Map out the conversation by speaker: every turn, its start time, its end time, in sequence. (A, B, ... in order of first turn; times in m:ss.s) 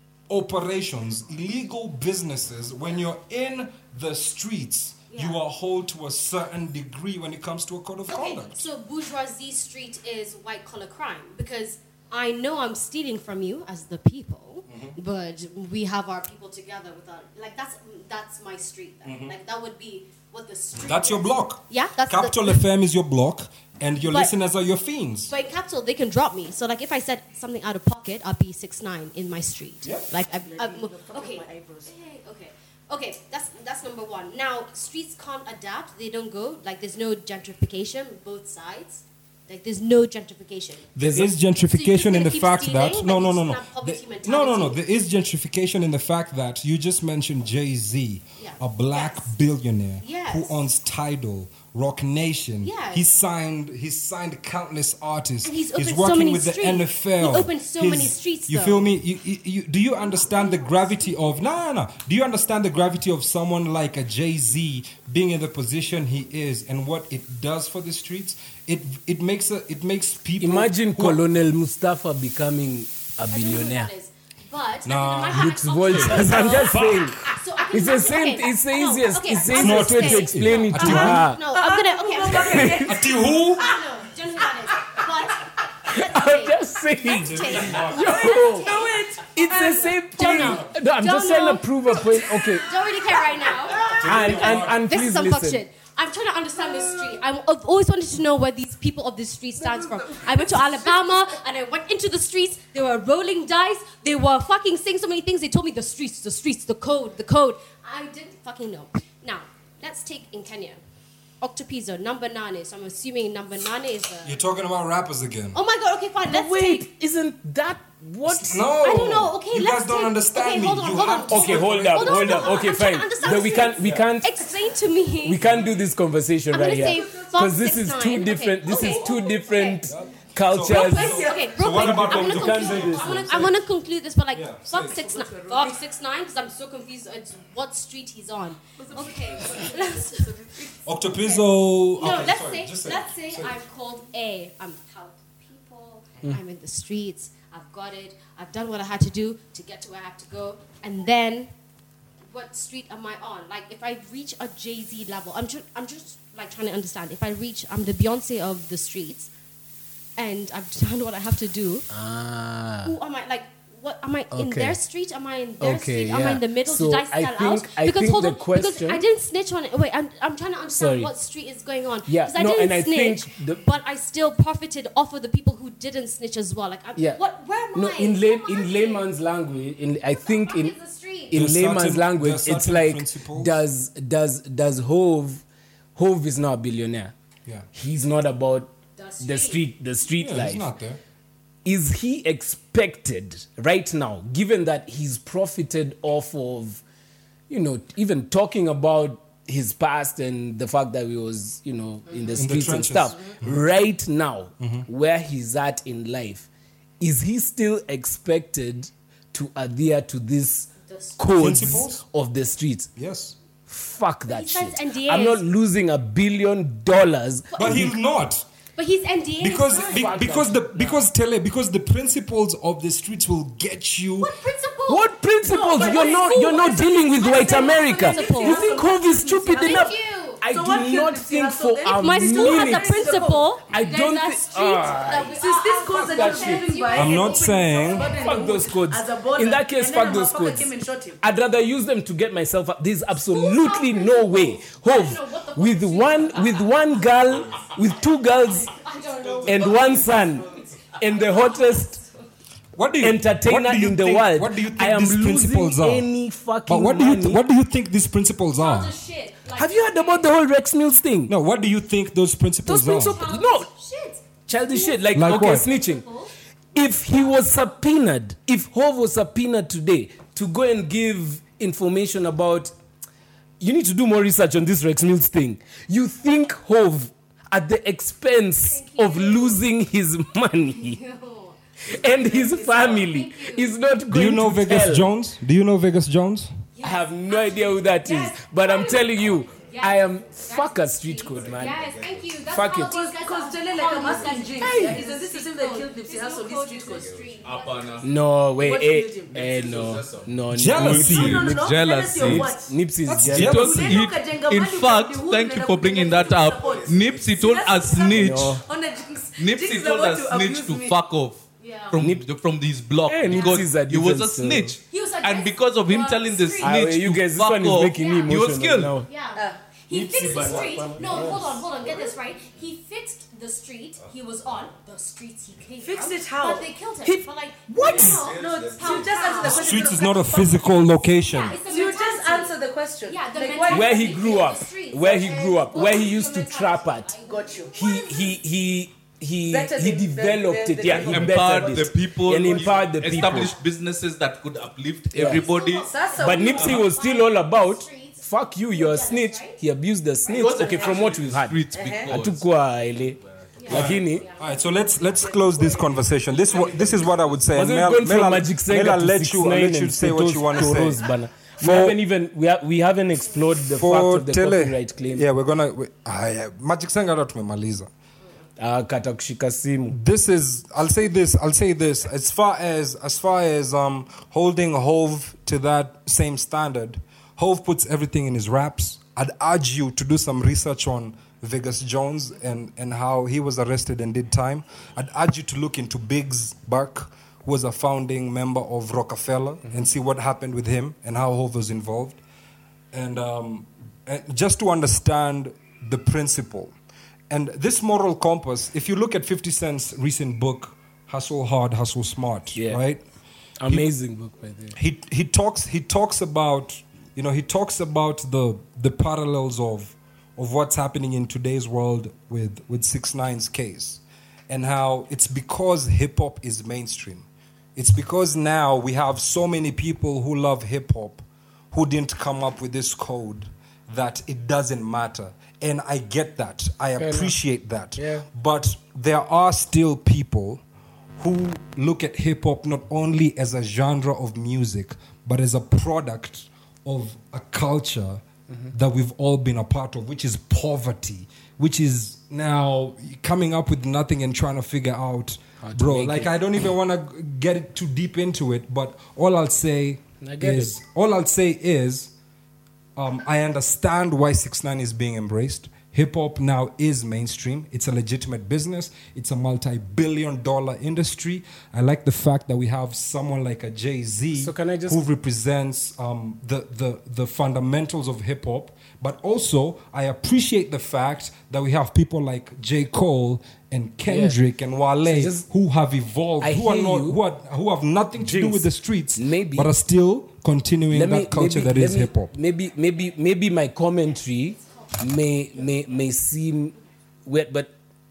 0:00.3-0:08.7 A
0:05.1-0:05.4 B
0:08.1-0:22.6 B
0:14.7-0:15.0 A
0:19.0-0:19.3 A
0:20.8-0:25.3 A
0:24.0-0:24.3 B
0:25.3-0:40.9 B
0:29.8-0:30.1 A
0:30.3-0:31.9 C
0:41.0-1:11.2 A
0:41.0-0:41.3 D
0:41.7-0:44.8 B
0:48.4-0:49.3 B
0:50.0-0:50.6 B
0:52.6-0:53.0 B
0:55.4-0:58.9 B
1:00.0-1:01.5 B
1:10.4-1:13.9 D
1:13.3-1:50.8 B
1:14.8-1:17.3 A
1:15.3-1:21.4 D
1:19.5-1:21.3 A
1:21.4-1:23.8 C
1:22.3-1:23.7 A
1:22.4-1:22.9 D
1:25.8-1:28.7 D
1:27.0-1:28.1 A
1:28.0-1:30.0 C
1:29.3-1:32.7 D
1:30.2-1:30.7 A
1:33.8-1:34.8 A
1:34.0-1:35.6 D
1:36.7-1:37.1 C
1:39.6-1:40.9 C
1:51.4-1:54.3 B
1:54.2-1:55.6 A
1:55.5-1:56.9 B
1:56.3-1:58.8 D
1:58.2-2:02.7 A
1:58.8-2:05.6 B
2:01.3-2:04.4 D
2:05.2-2:13.5 D
2:06.5-2:09.8 B
2:06.9-2:07.3 C
2:08.7-2:09.2 C
2:09.9-2:13.6 A
2:10.6-2:20.3 B
2:11.0-2:11.5 C
2:14.3-2:15.0 A
2:14.8-2:15.8 C
2:18.8-2:20.8 C
2:20.8-2:23.6 A
2:21.1-2:31.5 B
2:32.3-2:39.3 B
2:40.2-2:41.9 B
2:41.9-2:42.9 D
2:42.8-2:59.1 B
2:44.3-2:44.8 D
2:45.6-2:49.0 D
2:50.8-2:51.1 D
2:52.1-2:53.6 D
2:57.7-3:00.7 D
3:00.1-3:01.4 B
3:01.3-3:05.4 D
3:01.3-3:03.6 A
3:05.9-3:07.1 D
3:07.7-3:10.7 D
3:09.0-3:09.6 B
3:10.2-3:11.0 A
3:11.6-3:16.8 D
3:17.5-3:26.5 D
3:22.4-3:23.6 A
3:24.6-3:24.9 A
3:27.0-3:32.9 D
3:30.8-3:31.2 B
3:31.4-3:32.0 A
3:33.0-3:33.4 A
3:33.7-3:37.9 D
3:34.3-3:35.4 B
3:37.5-3:37.9 B
3:37.6-3:38.5 A
3:38.8-3:40.3 B
3:39.4-3:44.3 A
3:39.9-3:41.0 D
3:44.2-3:49.0 B
3:44.9-3:56.7 D
3:45.8-3:46.5 C
3:47.2-3:49.9 C
3:49.6-3:50.4 B
3:50.5-3:53.5 C
3:51.9-3:58.5 B
3:55.3-4:01.2 C
3:56.9-3:58.1 A
3:58.1-4:08.7 D
4:03.3-4:12.1 B
4:09.4-4:12.0 D
4:12.8-4:16.1 A
4:13.0-4:17.4 D
4:16.7-4:18.9 A
4:18.6-4:20.3 B
4:19.5-4:21.3 D
4:21.3-4:23.2 A
4:22.6-4:23.7 D
4:22.7-4:26.3 B
4:24.5-4:26.0 D
4:25.1-4:25.6 A
4:26.7-4:32.7 D
4:33.6-4:41.0 D
4:38.6-4:39.6 B
4:40.7-4:43.8 B
4:41.8-4:45.1 D
4:44.1-4:46.5 A
4:46.8-4:58.0 B
4:46.8-4:51.8 D
4:51.3-4:52.4 E
4:52.5-4:53.0 D
4:52.8-4:57.1 C
4:54.5-4:55.0 D
4:57.0-4:58.1 E
4:58.0-5:03.7 D
4:58.6-4:59.3 C
4:59.3-5:02.5 E
5:00.5-5:01.4 A
5:00.8-5:02.8 C
5:03.0-5:04.0 A
5:03.3-5:08.6 E
5:03.4-5:11.0 C
5:08.1-5:08.6 D
5:09.4-5:19.0 E
5:11.6-5:12.0 B
5:12.0-5:12.2 D
5:13.0-5:14.8 D
5:13.3-5:13.6 B
5:14.9-5:16.8 B
5:16.6-5:19.1 D
5:17.9-5:18.4 B
5:19.0-5:30.6 B
5:19.3-5:19.6 C
5:19.9-5:21.6 D
5:20.3-5:21.5 E
5:25.8-5:30.7 C
5:27.8-5:29.4 E
5:29.4-5:31.6 A
5:31.2-5:38.4 B
5:31.6-5:34.4 C
5:33.7-5:37.1 D
5:35.0-5:36.0 C
5:37.2-5:37.7 C
5:37.7-5:43.5 D
5:39.5-5:41.7 C
5:40.8-5:45.9 E
5:42.6-5:43.5 B
5:45.1-5:45.4 D
5:45.2-5:49.6 B
5:45.8-5:46.8 C
5:46.2-5:54.2 D
5:46.6-5:46.8 E
5:50.3-5:53.9 E
5:50.5-5:51.0 C
5:51.7-5:52.1 C
5:53.6-5:54.7 B
5:53.7-6:01.0 A
5:55.0-5:56.0 C
5:57.5-6:05.2 D
6:01.6-6:02.0 A
6:03.7-6:07.9 A
6:08.6-6:10.0 D
6:09.9-6:32.2 A
6:32.9-6:36.7 A
6:37.3-6:43.0 A
6:42.5-6:42.8 D
6:43.6-6:44.8 D
6:44.7-7:10.6 A
7:07.0-7:07.4 D
7:08.0-7:08.3 D
7:11.2-7:32.1 A
7:25.6-7:26.3 D
7:30.2-7:30.8 D
7:33.0-8:02.3 A
7:44.3-7:45.0 D
7:54.1-7:54.4 D
7:55.0-7:55.5 D
7:56.4-7:57.2 D
7:58.2-7:59.7 D
8:00.9-8:07.7 D
8:04.6-8:05.0 B